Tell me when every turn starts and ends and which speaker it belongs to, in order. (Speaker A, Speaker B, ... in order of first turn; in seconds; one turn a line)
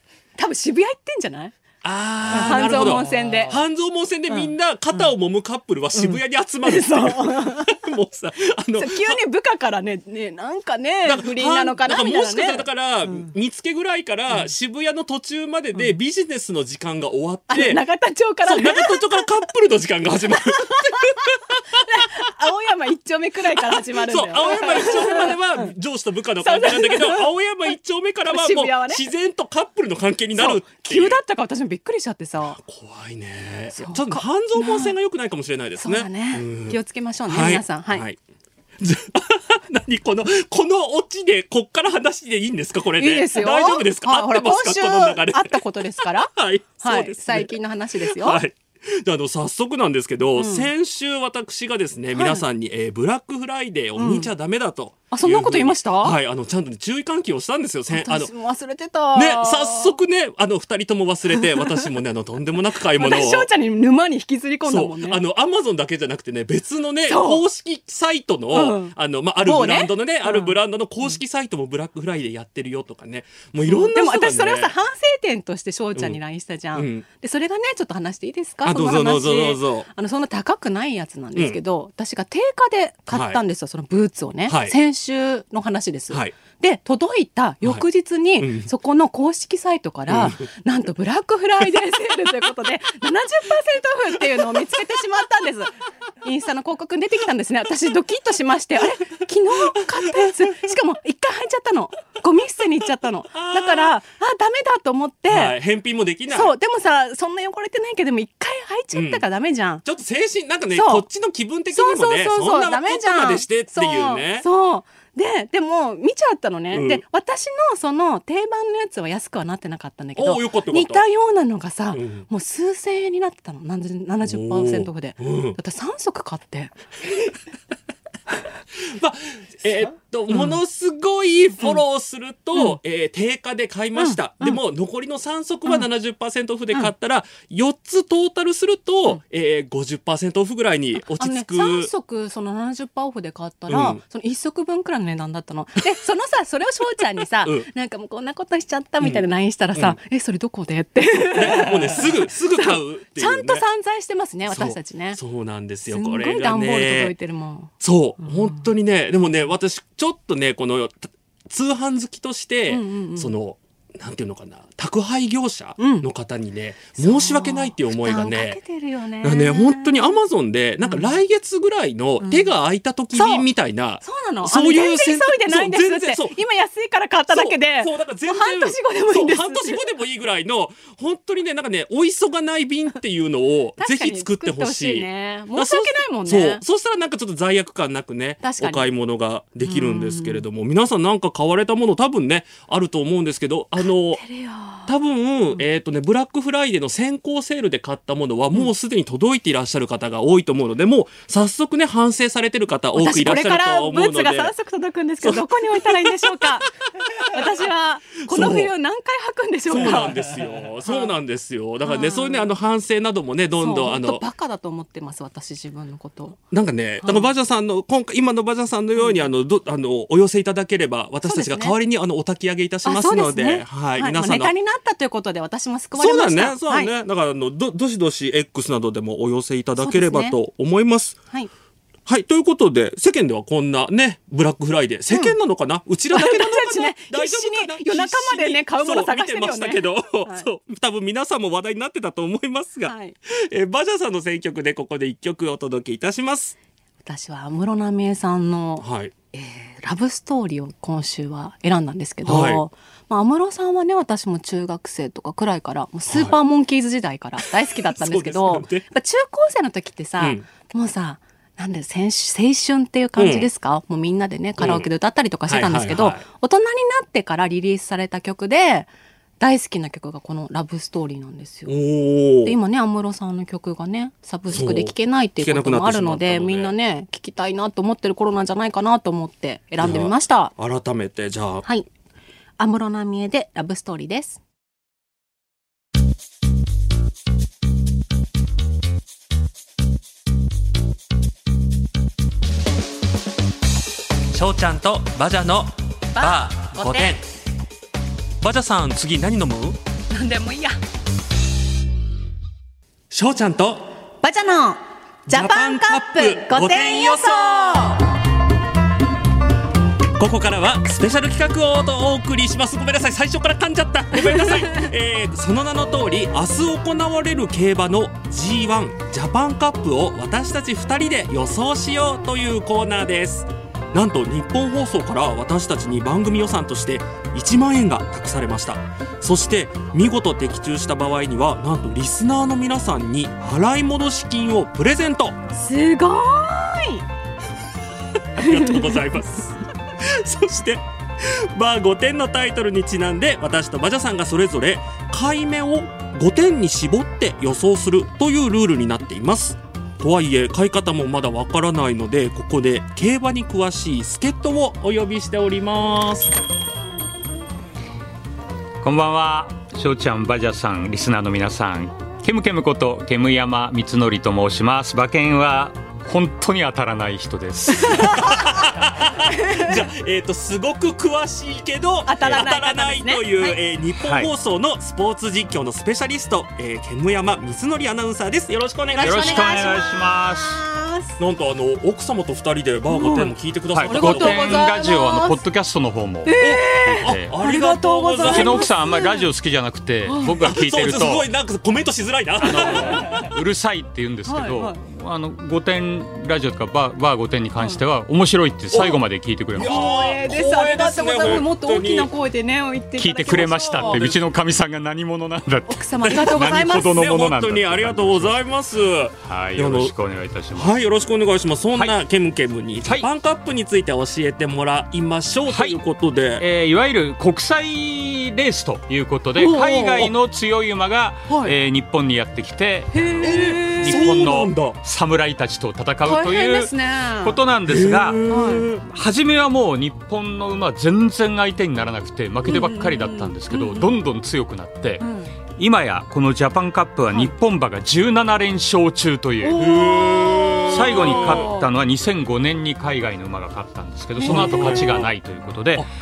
Speaker A: 0.4-1.6
Speaker B: 1.8-9.2
Speaker A: 2.3-3.6
Speaker A: 6.0-7.8
Speaker A: 8.8-13.3
Speaker B: 11.1-17.8
Speaker A: 17.5-19.2
Speaker B: 18.4-21.8
Speaker A: 20.4-25.7
Speaker B: 23.5-31.2
Speaker A: 26.4-27.3
Speaker A: 28.3-29.1
Speaker A: 30.4-32.6
Speaker B: 32.4-38.2
Speaker A: 33.7-35.0
Speaker A: 35.8-38.0
Speaker B: 38.8-58.3
Speaker A: 43.0-48.4
Speaker A: 50.4-50.7
Speaker A: 52.1-52.4
Speaker A: 54.0-54.3
Speaker A: 55.1-56.2
Speaker A: 57.9-60.0
Speaker B: 59.1-63.5
Speaker A: 61.4-61.8
Speaker A: 63.0-65.2
Speaker B: 64.7-74.7
Speaker A: 67.1-67.4
Speaker A: 68.5-70.5
Speaker A: 73.7-95.7
Speaker B: 76.8-77.1
Speaker B: 78.6-79.9
Speaker B: 83.1-83.4
Speaker B: 84.5-84.8
Speaker B: 86.1-86.4
Speaker B: 88.4-88.7
Speaker B: 90.1-90.5
Speaker A: 96.2-105.6
Speaker B: 103.3-104.0
Speaker B: 105.3-106.5
Speaker A: 106.3-109.8
Speaker B: 108.9-109.2
Speaker B: 109.8-114.5
Speaker A: 110.7-111.1
Speaker A: 111.7-126.8
Speaker B: 116.7-117.0
Speaker B: 120.2-121.0
Speaker B: 121.9-122.3
Speaker B: 124.2-125.6
Speaker B: 128.8-141.9
Speaker A: 134.0-134.6
Speaker A: 141.0-155.2
Speaker B: 143.7-144.0
Speaker B: 149.0-150.0
Speaker B: 151.3-153.7
Speaker B: 154.5-157.1
Speaker A: 155.9-157.7
Speaker B: 157.8-168.6
Speaker A: 162.7-163.3
Speaker A: 165.8-166.1
Speaker A: 167.0-170.2
Speaker B: 169.2-176.4
Speaker A: 170.9-171.1
Speaker A: 172.2-172.5
Speaker A: 173.1-173.5
Speaker A: 174.0-179.8
Speaker B: 177.3-194.2
Speaker A: 183.8-186.6
Speaker A: 188.4-188.9
Speaker A: 189.6-190.4
Speaker A: 193.8-194.9
Speaker B: 194.9-204.5
Speaker A: 202.9-210.2
Speaker B: 205.2-206.3
Speaker B: 208.3-208.7
Speaker B: 209.7-214.2
Speaker A: 211.8-212.5
Speaker A: 213.6-216.4
Speaker B: 216.5-224.5
Speaker A: 217.0-217.3
Speaker A: 221.2-221.8
Speaker A: 222.8-226.9
Speaker B: 226.0-231.2
Speaker A: 229.8-230.4
Speaker B: 232.1-246.6
Speaker A: 236.1-240.5
Speaker A: 242.8-243.2
Speaker A: 247.0-271.8
Speaker B: 248.8-249.1
Speaker B: 252.2-252.6
Speaker B: 256.1-256.4
Speaker B: 257.4-258.9
Speaker B: 260.2-260.4
Speaker B: 263.2-263.5
Speaker B: 264.6-264.9
Speaker B: 265.5-266.3
Speaker B: 271.7-272.6
Speaker A: 272.4-280.5
Speaker B: 274.5-276.7
Speaker B: 279.8-281.6
Speaker A: 282.6-284.4
Speaker B: 294.3-297.3
Speaker A: 296.1-297.2
Speaker B: 298.4-299.8
Speaker A: 300.1-300.8
Speaker B: 303.1-303.9
Speaker A: 304.2-308.1
Speaker B: 305.3-308.1
Speaker B: 310.2-335.4
Speaker A: 314.3-314.7
Speaker A: 335.5-337.0
Speaker B: 338.4-356.3
Speaker A: 338.4-338.9
Speaker C: 358.8-368.3
Speaker A: 367.7-368.7
Speaker B: 367.9-379.8
Speaker A: 369.2-369.8
Speaker A: 372.1-373.6
Speaker C: 374.0-374.3
Speaker A: 378.9-381.2
Speaker C: 379.0-380.6
Speaker B: 381.2-384.7
Speaker A: 382.9-383.3
Speaker C: 383.7-387.4
Speaker A: 383.9-385.4
Speaker A: 386.2-389.3
Speaker B: 386.4-388.7
Speaker C: 388.2-391.3
Speaker A: 390.1-390.4
Speaker B: 390.4-393.3
Speaker C: 392.4-399.8
Speaker A: 394.3-394.8
Speaker B: 398.7-399.0
Speaker B: 399.6-402.1
Speaker A: 399.6-404.1
Speaker C: 403.0-408.4
Speaker B: 403.7-404.2
Speaker A: 405.7-407.0
Speaker B: 406.1-409.9
Speaker C: 409.2-410.8
Speaker B: 410.5-416.4
Speaker C: 415.5-415.8
Speaker C: 416.4-428.2
Speaker A: 419.4-420.1
Speaker A: 421.3-421.6
Speaker A: 422.9-424.1
Speaker B: 423.2-424.8
Speaker A: 426.1-427.4
Speaker B: 427.7-428.9
Speaker A: 428.3-428.7
Speaker C: 428.8-435.0
Speaker A: 432.5-433.9
Speaker A: 435.0-435.3
Speaker C: 435.6-439.6
Speaker A: 439.4-441.7
Speaker B: 439.6-441.5
Speaker C: 440.7-445.9
Speaker A: 444.2-444.9
Speaker B: 444.2-445.1